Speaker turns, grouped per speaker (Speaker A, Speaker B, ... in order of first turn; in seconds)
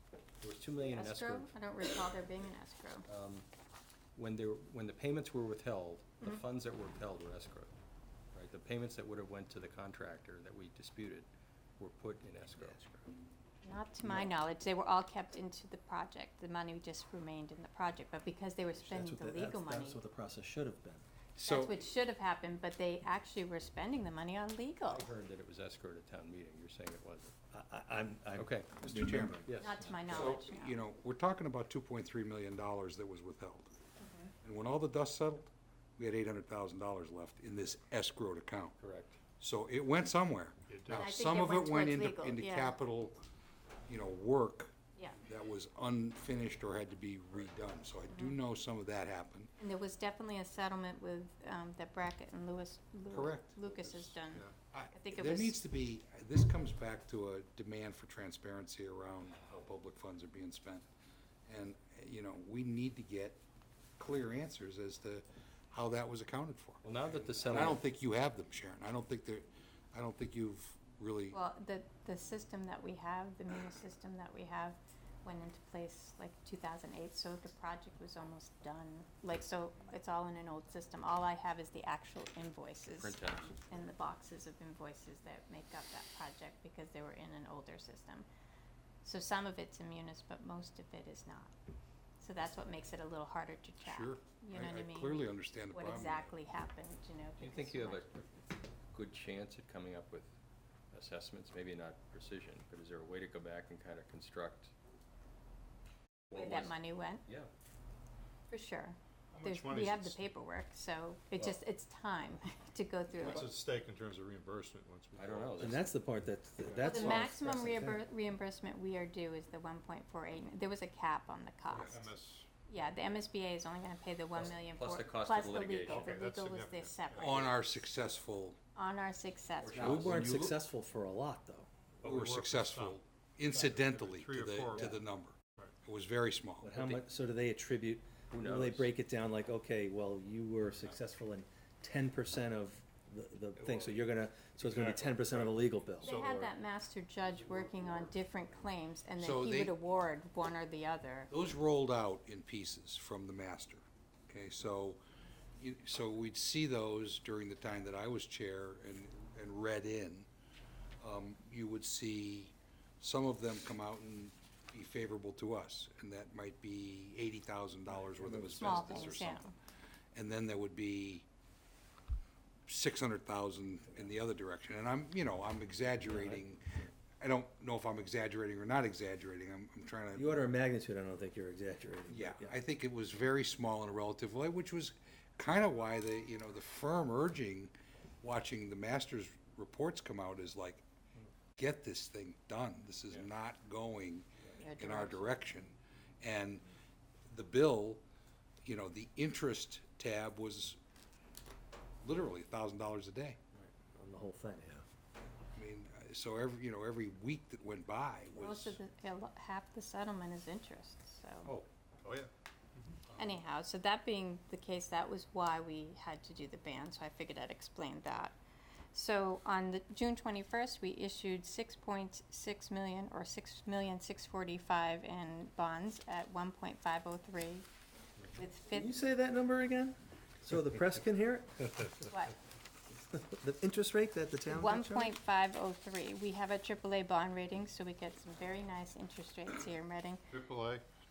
Speaker A: 0.4-1.6, 3.0-3.5, 4.1-7.7, 8.3-11.3, 11.8-12.8, 24.9-27.3, 28.4-28.7, 29.5-30.4, 38.8-39.2, 66.8-67.8, 82.9-83.6, 97.4-100.3, 100.9-104.7, 106.3-106.7, 115.2-116.0, 116.6-117.3, 124.3-126.2, 129.6-130.3, 136.7-137.0, 138.3-138.9
Speaker B: 0.8-3.0, 13.6-20.0, 21.4-25.1, 29.6-30.8, 34.0-34.3, 40.9-42.8, 49.6-55.6, 71.3-88.2, 89.0-91.5, 92.2-98.3, 106.3-107.2, 108.5-113.5, 116.8-122.1, 122.7-127.4, 128.8-129.9, 146.0-151.3, 168.6-169.5, 194.6-195.3, 208.3-211.5, 213.2-218.3, 218.9-227.7, 228.3-228.9, 232.1-232.3, 234.5-240.2
Speaker C: 12.6-13.0, 14.0-14.3, 18.8-21.0, 27.5-29.6, 115.6-118.0, 129.7-131.7, 136.6-146.2, 168.2-169.1, 176.1-176.4, 180.1-182.6, 203.9-204.8, 228.7-231.9, 233.1-235.1
Speaker D: 21.3-21.8, 28.8-29.4, 30.1-33.8, 34.4-38.8, 39.4-43.1, 43.9-49.5, 53.1-54.1, 54.7-60.8, 61.5-63.4, 64.0-71.4, 93.8-96.2, 127.2-128.6, 129.8-130.6, 132.0-136.7, 149.2-149.8, 151.3-155.0, 155.6-160.3, 161.0-169.5, 170.1-171.2, 172.7-180.3, 182.1-190.8, 191.6-196.6, 197.3-198.0, 198.6-200.8, 202.0-203.4, 205.5-208.8
Speaker E: 40.7-41.1, 109.3-110.3, 113.2-115.7, 121.8-122.5, 125.8-127.6, 132.0-135.0, 143.6-144.0, 144.6-146.5, 212.0-212.3, 240.3-240.8